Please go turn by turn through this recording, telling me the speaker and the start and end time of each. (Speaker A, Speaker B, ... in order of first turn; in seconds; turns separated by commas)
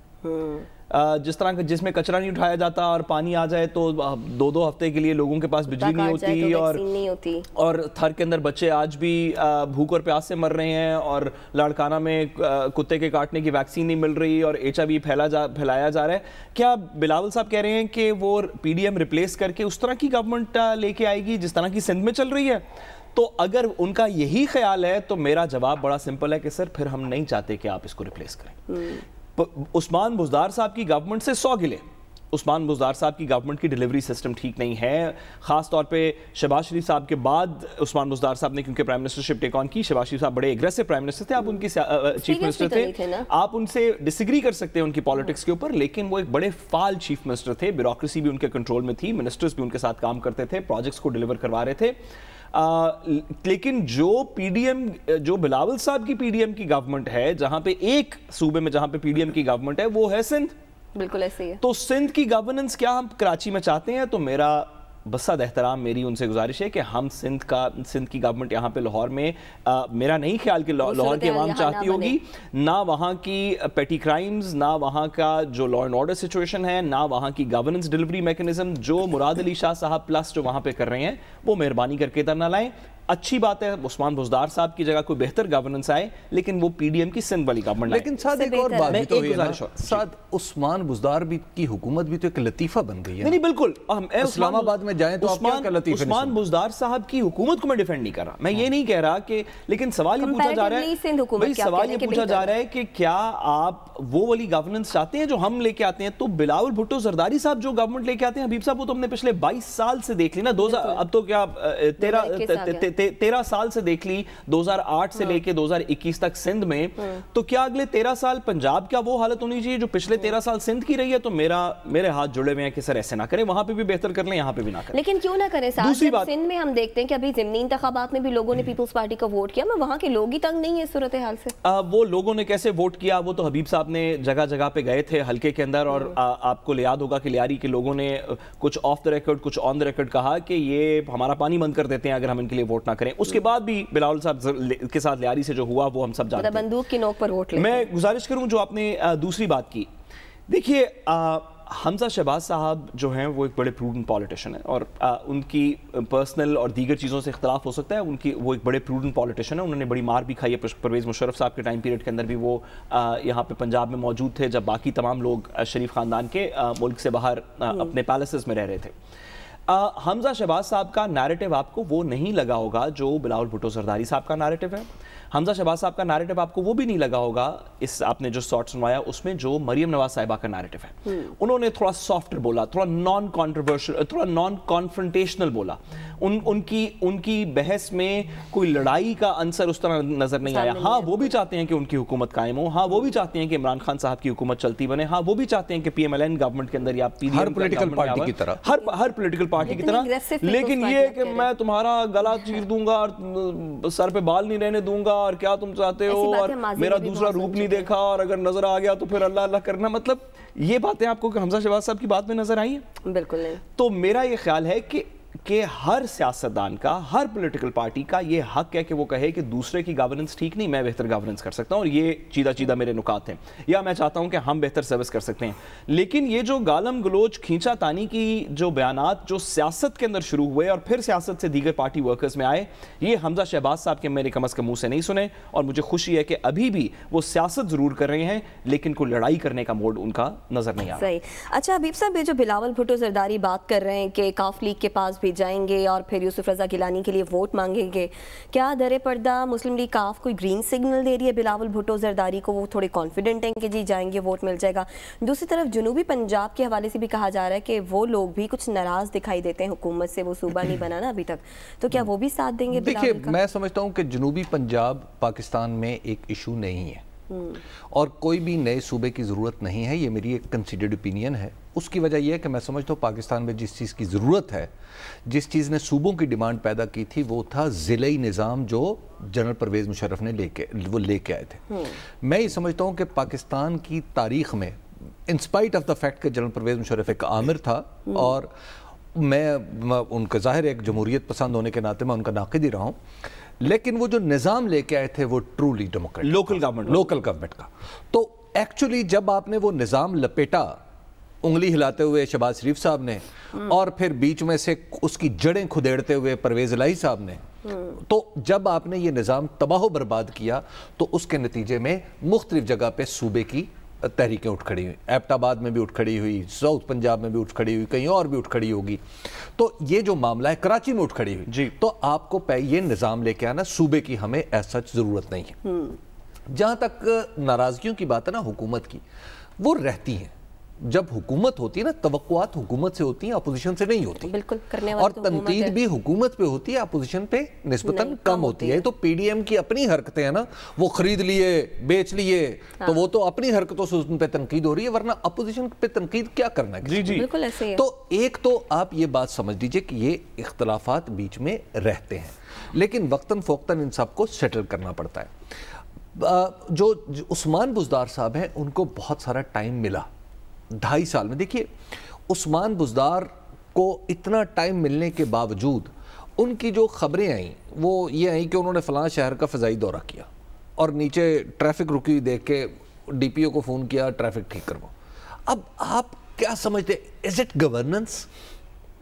Speaker A: 0.2-0.7, Speaker B: 0.9-6.8, Speaker A: 5.8-7.5, Speaker B: 7.5-28.6, Speaker A: 28.7-29.0, Speaker B: 29.4-52.0, Speaker A: 42.2-43.3, Speaker B: 52.5-60.5, Speaker A: 61.0-61.6, Speaker B: 61.6-88.1, Speaker A: 70.8-72.2, Speaker C: 87.9-93.4, Speaker A: 88.3-89.0, Speaker B: 88.9-90.0, Speaker B: 93.2-125.0, Speaker C: 94.2-96.4, Speaker A: 100.2-102.5, Speaker A: 110.6-111.0, Speaker A: 112.0-112.9, Speaker A: 124.9-131.5, Speaker B: 125.8-126.3, Speaker B: 131.6-146.7, Speaker A: 146.4-147.9, Speaker B: 147.6-149.9, Speaker B: 150.5-168.9, Speaker B: 169.7-212.9, Speaker A: 181.1-181.3, Speaker A: 190.5-191.3, Speaker C: 197.3-198.6, Speaker A: 199.7-201.5, Speaker A: 206.1-207.9, Speaker A: 213.0-213.6, Speaker B: 213.8-241.1, Speaker A: 241.0-263.4, Speaker C: 262.7-267.1, Speaker A: 267.3-267.6, Speaker C: 267.9-274.7, Speaker C: 275.2-288.5, Speaker A: 281.7-282.0, Speaker C: 289.1-293.0, Speaker C: 293.6-300.8, Speaker B: 296.2-297.1, Speaker C: 301.4-307.4, Speaker A: 307.7-308.0, Speaker C: 308.0-325.6, Speaker B: 321.5-321.7, Speaker A: 325.6-326.0, Speaker C: 326.5-329.0, Speaker C: 329.6-334.3, Speaker A: 334.3-335.8, Speaker C: 334.9-355.4, Speaker A: 337.9-338.9, Speaker A: 342.8-343.1, Speaker B: 346.8-347.3, Speaker A: 347.1-347.9, Speaker C: 356.1-360.1, Speaker C: 360.7-361.7, Speaker C: 362.3-374.9, Speaker C: 375.5-378.3